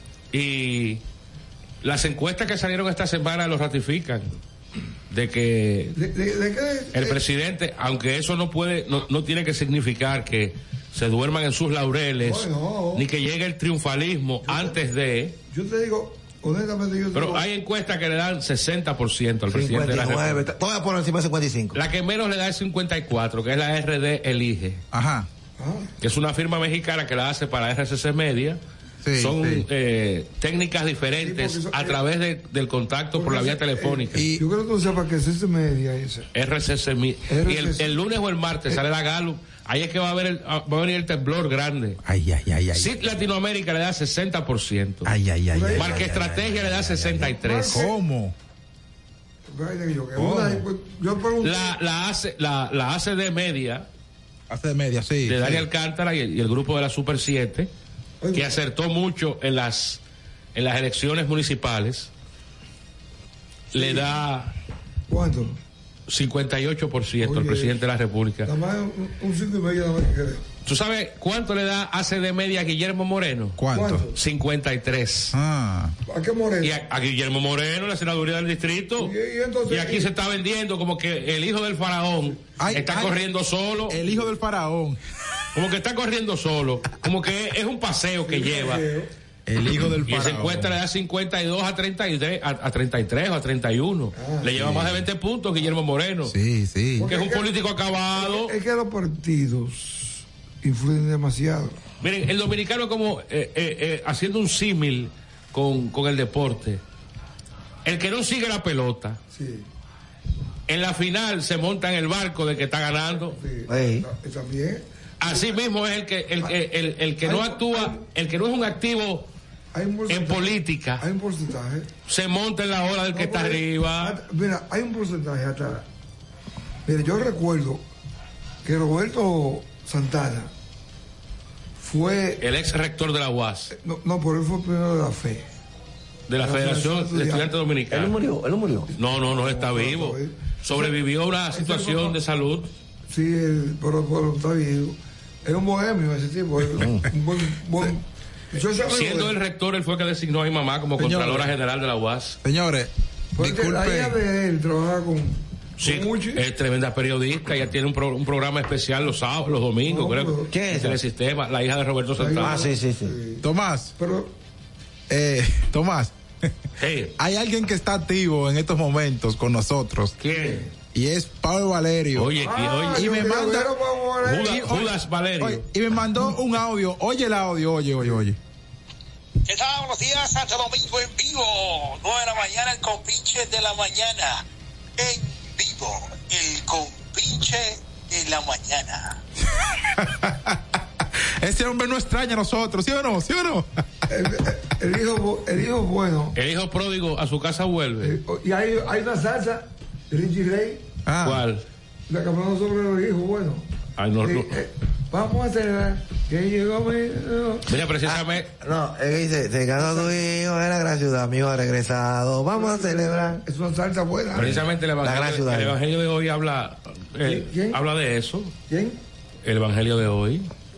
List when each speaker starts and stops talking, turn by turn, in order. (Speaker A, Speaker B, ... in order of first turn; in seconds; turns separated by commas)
Speaker A: 0.3-1.0, Speaker A: 1.8-4.3, Speaker A: 5.1-6.0, Speaker B: 5.9-7.2, Speaker A: 6.9-15.3, Speaker B: 12.2-13.1, Speaker B: 14.4-14.8, Speaker B: 15.5-17.4, Speaker A: 17.1-20.5, Speaker C: 19.5-21.8, Speaker A: 21.7-24.8, Speaker D: 24.9-25.3, Speaker B: 25.6-25.9, Speaker A: 26.0-28.6, Speaker D: 29.0-29.6, Speaker A: 29.2-34.2, Speaker B: 31.2-32.0, Speaker B: 33.1-36.3, Speaker D: 34.1-34.4, Speaker A: 36.3-42.0, Speaker B: 37.3-38.0, Speaker D: 42.0-43.0, Speaker A: 42.7-45.1, Speaker D: 45.0-46.0, Speaker B: 45.5-46.1, Speaker A: 45.7-47.9, Speaker C: 45.9-47.0, Speaker B: 47.2-47.9, Speaker D: 47.7-48.3, Speaker B: 49.5-51.7, Speaker D: 50.1-50.6, Speaker A: 51.4-53.9, Speaker D: 54.5-55.6, Speaker A: 55.2-57.7, Speaker B: 58.2-58.5, Speaker A: 58.3-60.0, Speaker A: 60.5-62.1, Speaker B: 63.7-64.1, Speaker A: 63.7-64.5, Speaker B: 65.1-65.6, Speaker A: 66.1-68.5, Speaker B: 67.2-67.7, Speaker B: 68.4-70.4, Speaker A: 70.6-73.6, Speaker D: 73.6-74.1, Speaker B: 73.7-74.2, Speaker A: 74.1-75.3, Speaker D: 75.3-75.9, Speaker B: 76.1-76.8, Speaker A: 76.6-79.1, Speaker B: 79.0-80.1, Speaker A: 79.7-84.0, Speaker D: 82.6-83.2, Speaker D: 83.9-85.0, Speaker A: 85.5-88.8, Speaker B: 88.2-89.1, Speaker D: 89.5-90.8, Speaker A: 90.1-96.3, Speaker B: 94.1-94.8, Speaker D: 94.7-95.0, Speaker D: 96.2-97.1, Speaker B: 97.0-97.5, Speaker A: 97.0-98.5, Speaker B: 98.2-101.8, Speaker A: 102.0-106.8, Speaker A: 107.8-109.2, Speaker B: 109.3-109.7, Speaker A: 110.7-113.4, Speaker B: 113.3-115.5, Speaker C: 113.7-114.1, Speaker A: 115.2-119.3, Speaker B: 117.2-118.0, Speaker B: 119.7-121.9, Speaker A: 120.1-121.0, Speaker A: 122.1-124.2, Speaker B: 123.1-125.8, Speaker B: 126.8-127.8, Speaker B: 128.6-130.5, Speaker B: 131.8-132.4, Speaker A: 132.4-133.7, Speaker B: 133.7-135.4, Speaker A: 136.3-138.2, Speaker B: 136.4-137.5, Speaker C: 137.9-138.9, Speaker A: 138.9-142.7, Speaker B: 139.2-140.9, Speaker B: 141.5-142.2, Speaker B: 143.1-149.3, Speaker C: 146.8-147.1, Speaker A: 148.9-152.4, Speaker D: 151.0-151.5, Speaker D: 152.4-154.2, Speaker B: 153.3-156.4, Speaker A: 155.8-162.6, Speaker B: 159.8-160.5, Speaker C: 160.5-161.0, Speaker B: 162.2-163.4, Speaker C: 162.4-163.2, Speaker D: 163.4-163.9, Speaker B: 164.0-164.3, Speaker D: 165.1-166.1, Speaker A: 166.8-167.1, Speaker D: 167.2-170.1, Speaker A: 170.2-170.7, Speaker D: 170.9-173.7, Speaker A: 172.1-173.2, Speaker B: 172.4-174.6, Speaker A: 174.2-175.7, Speaker D: 174.4-178.4, Speaker E: 179.4-184.4, Speaker E: 185.0-189.2, Speaker D: 190.0-190.6, Speaker D: 191.4-193.7, Speaker B: 194.1-196.3, Speaker A: 196.3-198.2, Speaker B: 198.0-200.8, Speaker D: 201.1-201.4, Speaker A: 201.2-201.6, Speaker B: 202.1-203.6, Speaker A: 204.0-204.6, Speaker B: 204.2-207.7, Speaker A: 207.7-208.5, Speaker C: 208.1-213.4, Speaker B: 209.8-210.2, Speaker B: 212.5-214.6, Speaker A: 214.3-218.5, Speaker C: 215.0-215.8, Speaker B: 217.2-217.8, Speaker B: 218.7-219.0, Speaker A: 219.4-220.5